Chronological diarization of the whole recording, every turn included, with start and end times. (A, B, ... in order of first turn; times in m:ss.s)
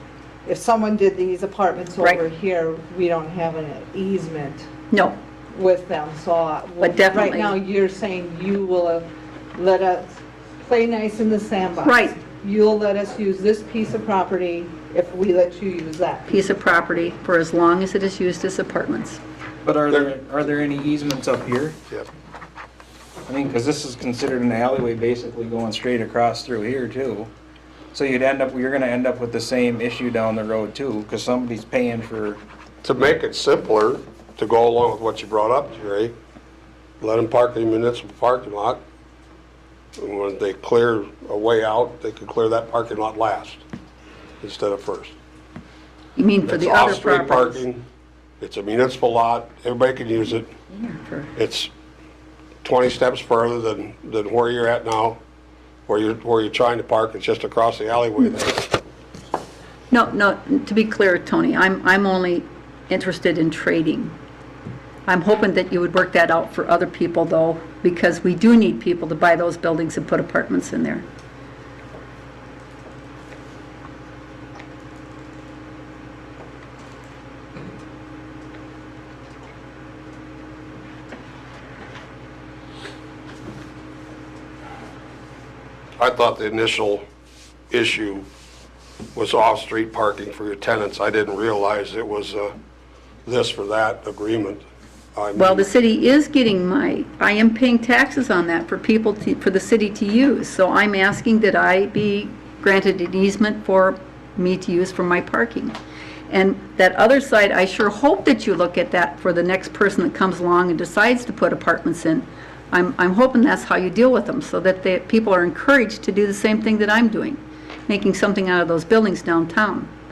0:00.5-0:04.7 A
0:04.9-0:05.2 B
0:05.5-0:16.3 A
0:06.8-0:07.6 B
0:11.8-0:12.2 B
0:16.3-0:19.2 B
0:19.6-0:21.8 C
0:23.3-0:27.3 C
0:27.9-0:32.4 C
0:32.8-0:36.2 D
0:37.0-0:38.8 D
0:40.0-0:43.6 D
0:44.4-0:45.1 D
0:46.2-0:47.6 B
0:46.4-0:47.8 D
0:48.4-0:50.5 D
0:50.7-0:51.3 B
0:51.4-0:51.7 D
0:52.6-0:55.2 D
0:55.9-0:58.7 D
0:59.9-1:04.1 B
1:05.1-1:11.0 B
1:26.0-1:27.0 D
1:27.7-1:28.3 D
1:29.1-1:32.5 D
1:33.2-1:35.7 D
1:35.4-1:45.8 B
1:46.3-1:59.9 B